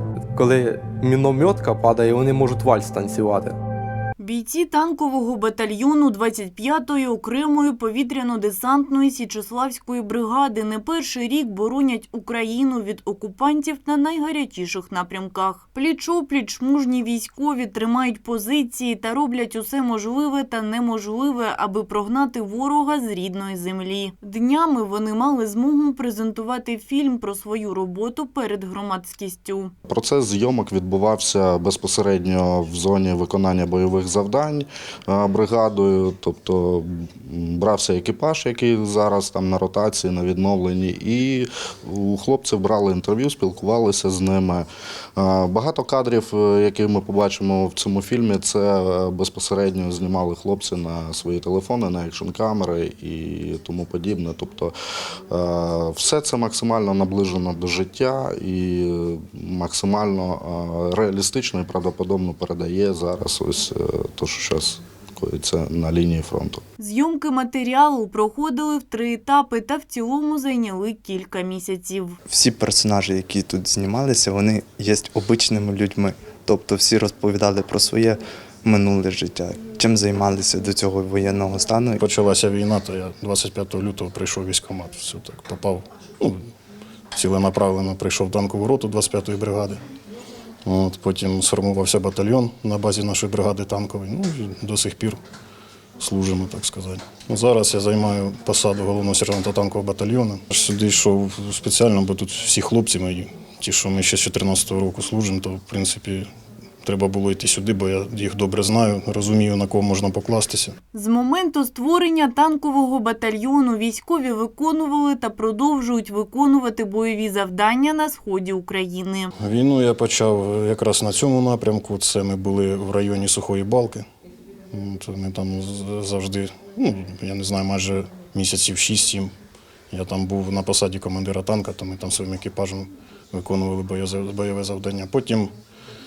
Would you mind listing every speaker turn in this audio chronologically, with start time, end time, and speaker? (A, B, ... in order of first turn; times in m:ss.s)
0:00.3-0:03.6 A
0:04.2-0:29.7 B
0:29.9-0:54.7 C
0:55.3-1:06.6 C
1:06.8-1:12.2 B
1:12.2-1:22.0 D
1:22.0-1:26.4 E
1:27.1-1:29.8 E
1:30.6-1:35.2 E
1:36.0-1:46.3 E
1:46.8-1:50.7 E
1:50.9-1:59.3 B
1:59.4-2:04.0 E
2:04.7-2:09.3 E
2:09.9-2:15.5 E